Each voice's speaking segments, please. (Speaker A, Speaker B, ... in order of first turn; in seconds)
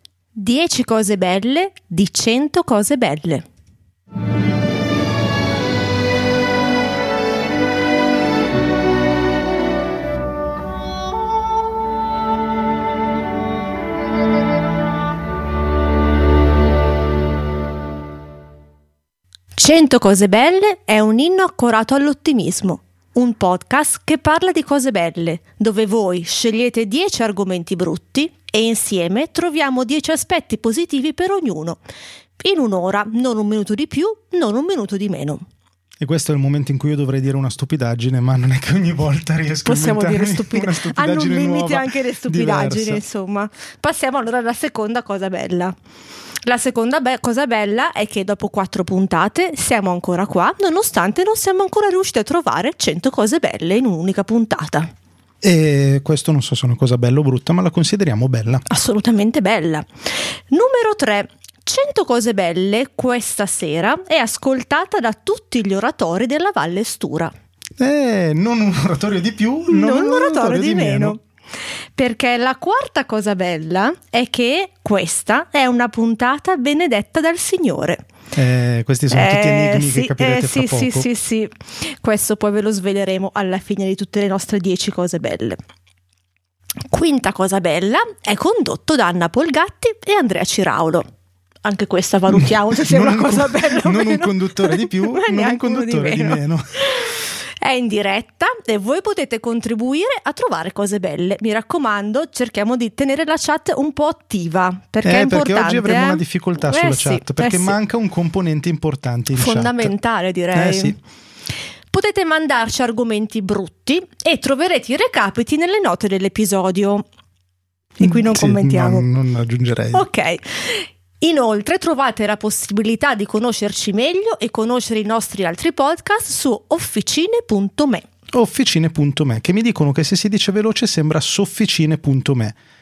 Speaker A: 0.4-3.4, 19.6-31.8, 32.4-35.5, 39.7-45.7, 46.5-54.9, 58.7-67.3, 69.7-71.2, 72.0-78.0, 79.1-85.6, 86.9-91.1, 91.7-107.8, 109.3-111.0, 111.9-117.0, 118.0-119.0, 119.9-128.0
Speaker B: 36.0-43.0, 55.4-58.6, 67.8-71.2, 78.3-81.1, 92.3-96.6, 105.0-109.9, 110.5-111.0, 118.0-120.0, 128.3-132.6